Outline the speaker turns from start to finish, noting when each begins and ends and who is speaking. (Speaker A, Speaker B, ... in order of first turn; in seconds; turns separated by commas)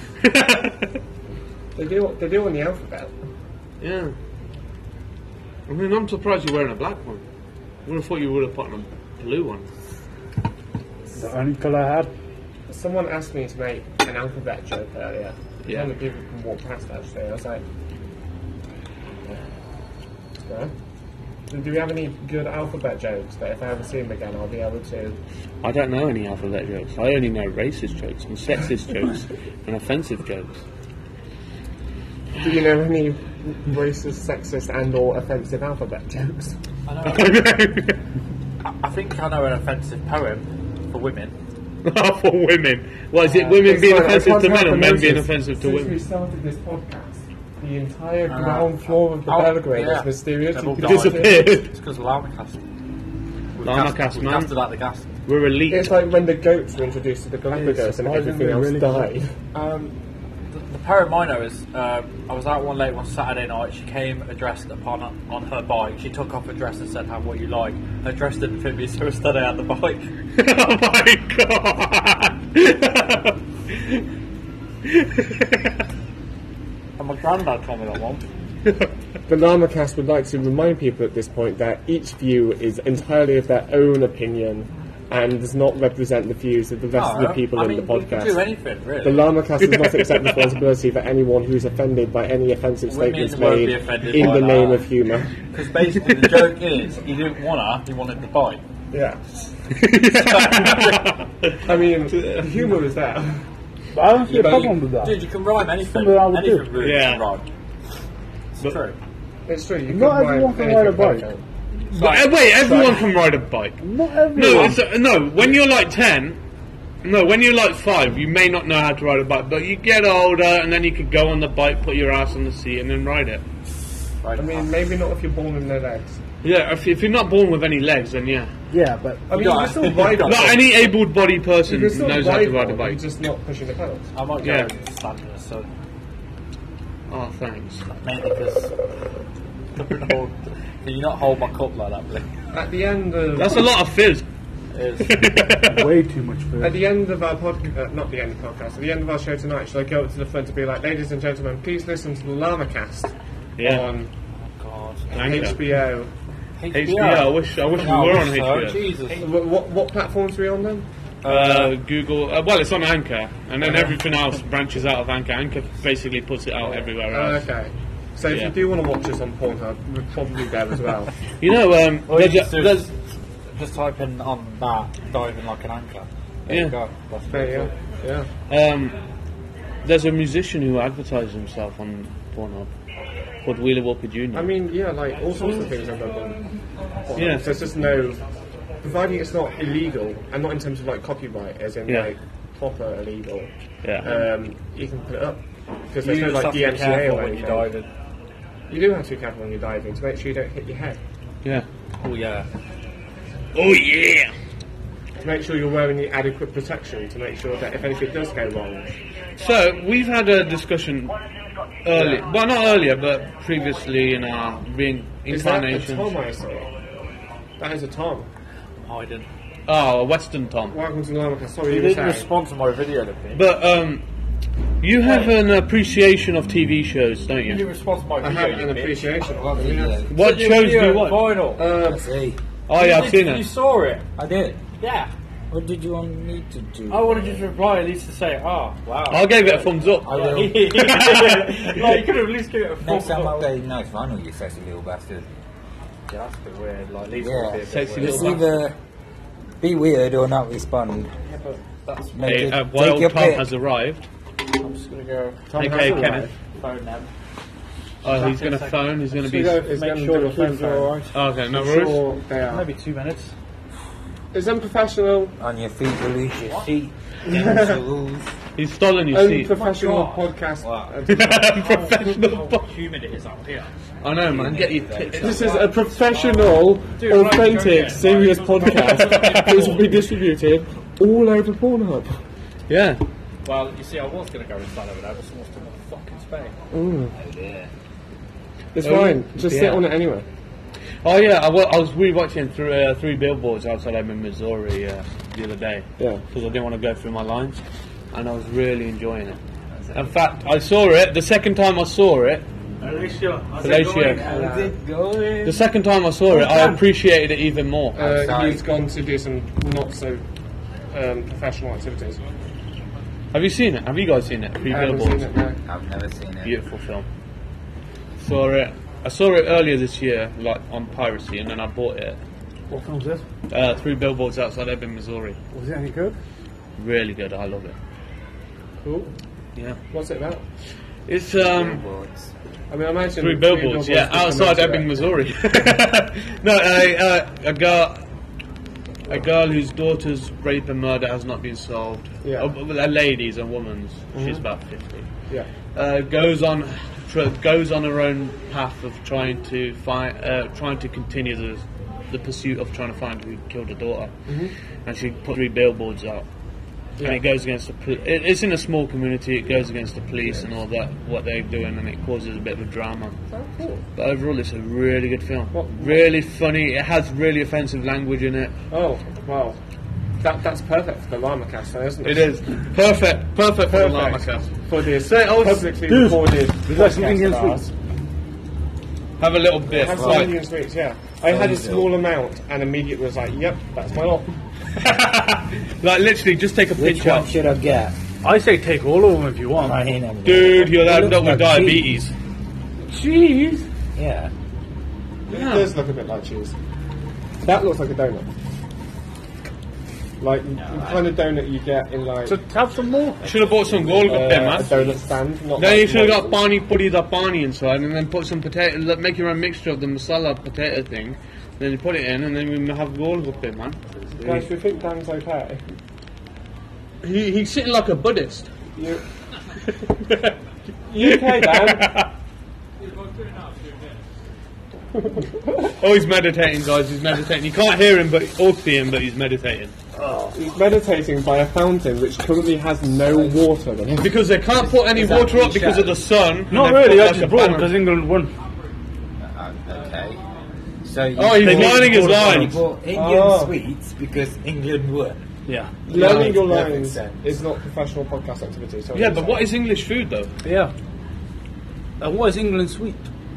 Speaker A: 0.1-0.9, Speaker B: 1.8-3.1, Speaker A: 3.8-4.1, Speaker A: 5.7-7.2, Speaker A: 7.8-9.6, Speaker C: 11.1-12.1, Speaker B: 12.7-17.6, Speaker A: 15.6-15.9, Speaker B: 20.4-20.7, Speaker B: 21.5-25.2, Speaker A: 25.6-30.6, Speaker B: 32.4-36.5, Speaker D: 36.9-37.6, Speaker A: 37.0-38.0, Speaker D: 38.6-41.3, Speaker A: 41.8-46.0, Speaker D: 43.2-43.6, Speaker B: 43.5-51.5, Speaker D: 48.3-52.6, Speaker A: 50.8-51.7, Speaker D: 53.5-55.1, Speaker A: 53.6-54.5, Speaker A: 55.3-56.0, Speaker B: 55.7-59.9, Speaker C: 57.5-59.1, Speaker D: 60.5-70.1, Speaker A: 70.4-74.0, Speaker A: 74.9-75.7, Speaker D: 77.0-78.2, Speaker B: 79.3-88.4, Speaker D: 86.9-89.3, Speaker B: 89.0-95.3, Speaker A: 89.7-90.5, Speaker D: 92.9-94.9, Speaker D: 95.4-98.6, Speaker B: 98.9-99.2, Speaker A: 99.8-101.1, Speaker D: 99.9-101.1, Speaker B: 101.6-103.4, Speaker A: 102.2-102.4, Speaker C: 103.9-105.2, Speaker B: 104.3-104.7, Speaker D: 104.3-107.4, Speaker C: 105.8-106.8, Speaker A: 106.8-107.2, Speaker D: 108.5-109.0, Speaker B: 109.5-111.4, Speaker C: 109.9-111.3, Speaker D: 111.9-112.8, Speaker A: 111.9-116.4, Speaker B: 112.6-113.0, Speaker C: 113.8-114.8, Speaker A: 117.0-123.4, Speaker D: 124.2-124.7, Speaker B: 124.3-126.2, Speaker A: 126.4-128.5, Speaker C: 128.7-129.3, Speaker B: 129.3-130.7, Speaker D: 129.3-130.7, Speaker A: 130.2-133.0, Speaker B: 131.6-134.1, Speaker D: 134.1-135.7, Speaker A: 134.4-134.7, Speaker A: 137.1-137.8, Speaker D: 138.0-138.8, Speaker D: 139.7-142.3, Speaker B: 142.5-143.7, Speaker A: 143.3-144.2, Speaker D: 144.7-145.3, Speaker A: 145.0-145.9, Speaker C: 145.6-146.8, Speaker B: 146.6-154.1, Speaker A: 153.6-153.9, Speaker D: 154.4-155.5, Speaker A: 155.1-155.6, Speaker B: 155.1-156.1, Speaker D: 156.6-159.3, Speaker A: 156.7-158.8, Speaker B: 159.2-160.9, Speaker D: 161.2-161.8, Speaker A: 161.2-167.4, Speaker B: 163.6-163.9, Speaker B: 167.1-171.1, Speaker A: 171.4-172.9, Speaker D: 172.1-173.0, Speaker D: 173.5-177.7, Speaker A: 176.5-176.7, Speaker B: 177.3-178.3, Speaker A: 178.5-179.0, Speaker A: 179.8-182.7, Speaker A: 183.4-184.5, Speaker B: 184.3-186.4, Speaker B: 187.1-188.2, Speaker A: 187.2-187.6, Speaker B: 188.8-193.5, Speaker B: 194.0-197.7, Speaker D: 196.0-197.9, Speaker B: 198.7-201.0, Speaker D: 202.0-202.5, Speaker A: 203.5-204.3, Speaker B: 205.2-208.9, Speaker A: 209.4-211.2, Speaker A: 211.8-216.1, Speaker B: 211.9-212.2, Speaker B: 215.3-216.7, Speaker B: 217.6-218.3, Speaker D: 218.8-219.3, Speaker A: 219.7-220.8, Speaker B: 220.7-222.3, Speaker D: 221.7-223.4, Speaker A: 223.3-224.0, Speaker A: 224.8-227.6, Speaker D: 225.0-225.3, Speaker D: 227.4-229.2, Speaker B: 228.2-230.0, Speaker E: 229.4-230.1, Speaker D: 230.1-231.6, Speaker A: 230.1-231.4, Speaker B: 231.6-232.1, Speaker E: 231.8-232.4, Speaker A: 232.7-233.5, Speaker D: 232.7-234.1, Speaker E: 234.2-234.6, Speaker D: 234.8-235.1, Speaker E: 235.5-237.5, Speaker D: 236.9-243.5, Speaker A: 239.1-241.7, Speaker E: 240.0-240.9, Speaker E: 242.8-245.2, Speaker D: 246.1-248.4, Speaker E: 247.2-248.8, Speaker A: 247.7-248.4, Speaker E: 249.6-251.1, Speaker D: 251.2-252.6, Speaker E: 252.1-253.5, Speaker A: 252.2-254.0, Speaker D: 254.6-257.1, Speaker B: 255.5-256.3, Speaker A: 255.6-256.3, Speaker A: 258.0-259.7, Speaker D: 258.0-261.1, Speaker B: 259.2-260.9, Speaker A: 261.1-262.0, Speaker B: 261.5-262.6, Speaker D: 262.4-263.3, Speaker B: 264.3-265.4, Speaker E: 265.4-268.3, Speaker B: 267.3-267.8, Speaker A: 268.6-269.5, Speaker B: 269.1-271.6, Speaker D: 269.5-270.3, Speaker A: 271.1-272.6, Speaker D: 271.3-273.7, Speaker A: 274.0-275.5, Speaker E: 274.3-275.3, Speaker D: 274.9-279.9, Speaker B: 275.1-282.2, Speaker A: 278.8-279.7, Speaker A: 282.7-283.0, Speaker D: 283.4-286.5, Speaker B: 286.7-287.1, Speaker E: 287.1-287.7, Speaker B: 288.7-290.2, Speaker A: 288.8-289.9, Speaker A: 291.0-297.6, Speaker A: 298.1-299.4, Speaker E: 299.8-300.1, Speaker A: 299.9-302.4, Speaker C: 302.8-304.6, Speaker A: 303.6-304.2, Speaker E: 303.6-305.6, Speaker B: 304.2-304.7, Speaker A: 305.4-308.0, Speaker C: 306.3-306.8, Speaker B: 307.9-310.2, Speaker E: 307.9-308.6, Speaker B: 310.9-312.2, Speaker A: 313.3-315.3, Speaker B: 314.6-315.6, Speaker E: 315.6-316.5, Speaker A: 316.4-317.1, Speaker A: 318.2-322.2, Speaker C: 322.7-323.2, Speaker A: 323.5-325.4, Speaker C: 325.5-326.2, Speaker A: 326.8-327.8, Speaker B: 328.8-329.1, Speaker B: 329.9-330.4, Speaker A: 331.1-331.8, Speaker E: 331.4-332.3, Speaker B: 332.7-335.0, Speaker A: 333.2-338.0, Speaker A: 339.1-345.1, Speaker B: 342.2-342.5, Speaker B: 344.1-344.4, Speaker A: 345.7-354.1, Speaker B: 354.3-354.5, Speaker A: 354.9-356.2, Speaker A: 357.0-363.2, Speaker B: 363.3-363.8, Speaker A: 363.9-368.5, Speaker B: 365.5-366.1, Speaker B: 368.7-369.6, Speaker B: 370.2-372.3, Speaker A: 372.0-375.7, Speaker B: 373.6-377.7, Speaker C: 375.9-377.7, Speaker A: 379.2-380.3, Speaker E: 379.7-380.3, Speaker B: 379.7-384.3, Speaker E: 381.2-381.9, Speaker A: 384.8-387.4, Speaker E: 386.8-387.9, Speaker C: 388.2-389.8, Speaker E: 389.5-391.9, Speaker A: 390.2-392.1, Speaker C: 392.9-393.6, Speaker E: 393.9-394.3, Speaker B: 395.3-396.5, Speaker A: 395.3-395.7, Speaker B: 397.4-398.3, Speaker B: 400.2-402.4, Speaker E: 400.6-401.1, Speaker C: 402.2-403.3, Speaker A: 403.2-404.8, Speaker E: 403.6-404.9, Speaker B: 404.0-406.4, Speaker A: 405.6-414.4, Speaker B: 414.2-415.6, Speaker A: 417.0-418.5, Speaker B: 418.8-419.0, Speaker B: 420.9-422.0, Speaker A: 420.9-422.1, Speaker A: 425.7-429.8, Speaker B: 430.3-434.2, Speaker E: 433.1-433.4, Speaker A: 434.0-437.7, Speaker E: 434.6-436.0, Speaker C: 436.5-438.3, Speaker E: 439.2-440.2, Speaker E: 440.8-445.2, Speaker A: 441.1-442.6, Speaker C: 441.4-442.6, Speaker B: 442.9-443.5, Speaker C: 445.5-445.8, Speaker B: 445.9-449.5, Speaker E: 445.9-447.2, Speaker A: 445.9-446.4, Speaker A: 448.9-450.3, Speaker C: 450.4-450.7, Speaker C: 452.0-453.1